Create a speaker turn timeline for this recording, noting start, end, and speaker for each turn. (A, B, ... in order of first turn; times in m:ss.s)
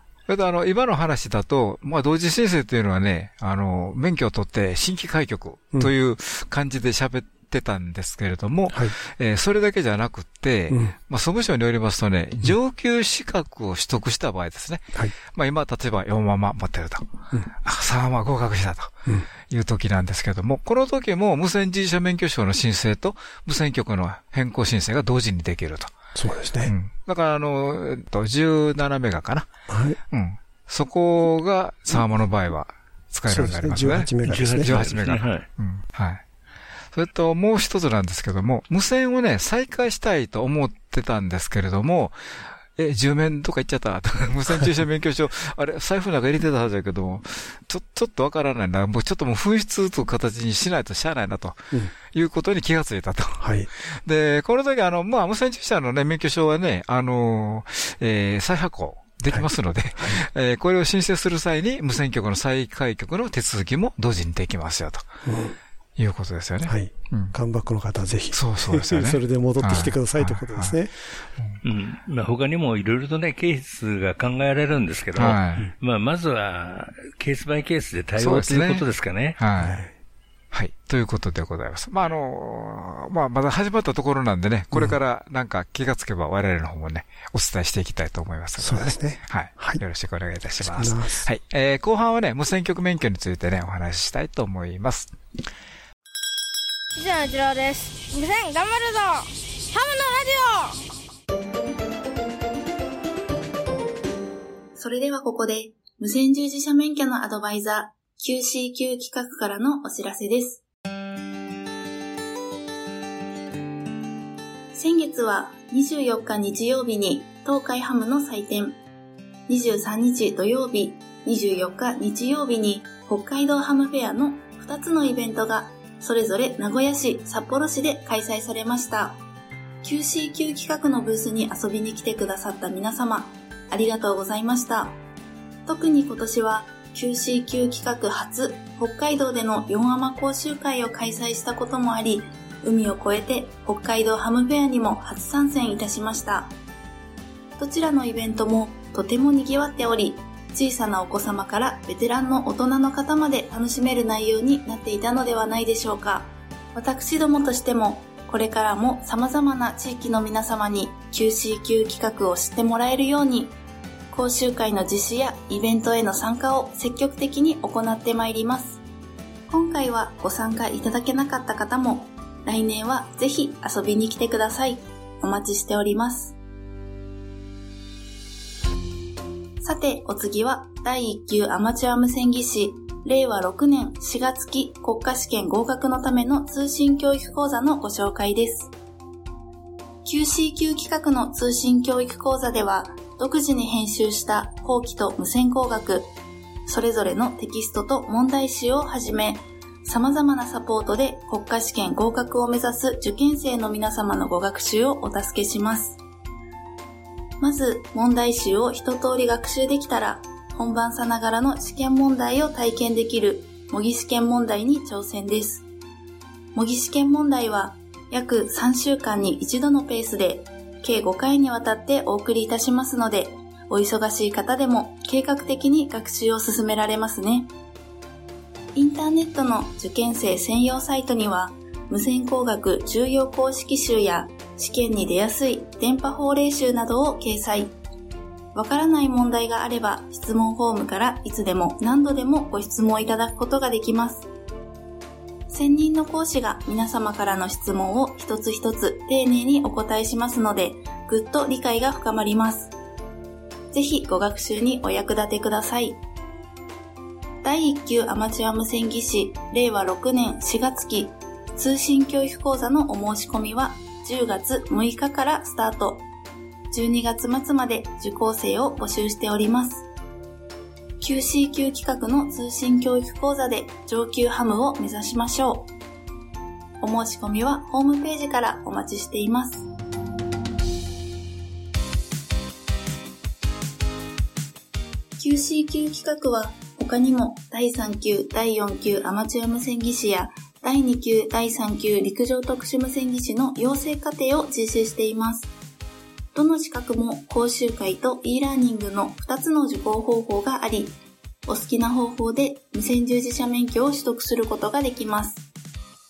0:00.3-0:18.9 A
0:10.7-0:10.9 B
0:19.5-0:25.9 A
0:26.1-0:26.7 B
0:26.6-0:29.5 A
0:29.7-0:30.0 B
0:30.1-0:36.2 A
0:33.3-0:34.8 B
0:34.2-0:35.4 C
0:36.9-1:05.1 A
0:53.4-0:53.7 B
1:05.2-1:05.6 B
1:06.0-1:07.3 A
1:06.7-1:10.9 B
1:08.3-1:10.8 A
1:11.6-1:19.4 C
1:15.2-1:15.7 A
1:18.2-1:18.8 A
1:19.4-1:19.8 A
1:19.6-1:19.9 B
1:20.5-1:35.1 A
1:28.6-1:29.8 B
1:30.6-1:31.3 B
1:37.0-1:40.8 D
1:44.8-1:50.6 E
1:54.7-1:58.8 E
1:59.5-2:09.2 E
2:09.8-2:15.0 E
2:15.6-2:26.5 E
2:27.6-2:43.6 E
2:44.1-2:48.8 E
2:49.5-2:56.4 E
2:59.6-3:08.7 E
3:10.0-3:16.1 E
3:16.6-3:26.0 E
3:27.4-3:35.6 E
3:36.5-3:47.5 E
3:48.7-3:57.7 E
3:58.5-4:04.3 E
4:05.5-4:12.7 E
4:13.7-4:16.0 E
4:17.4-4:26.1 E
4:26.7-4:29.8 E
4:31.0-4:35.7 E
4:36.8-4:39.7 E
4:45.2-4:55.5 E
4:56.3-5:01.0 E
5:01.5-5:05.4 E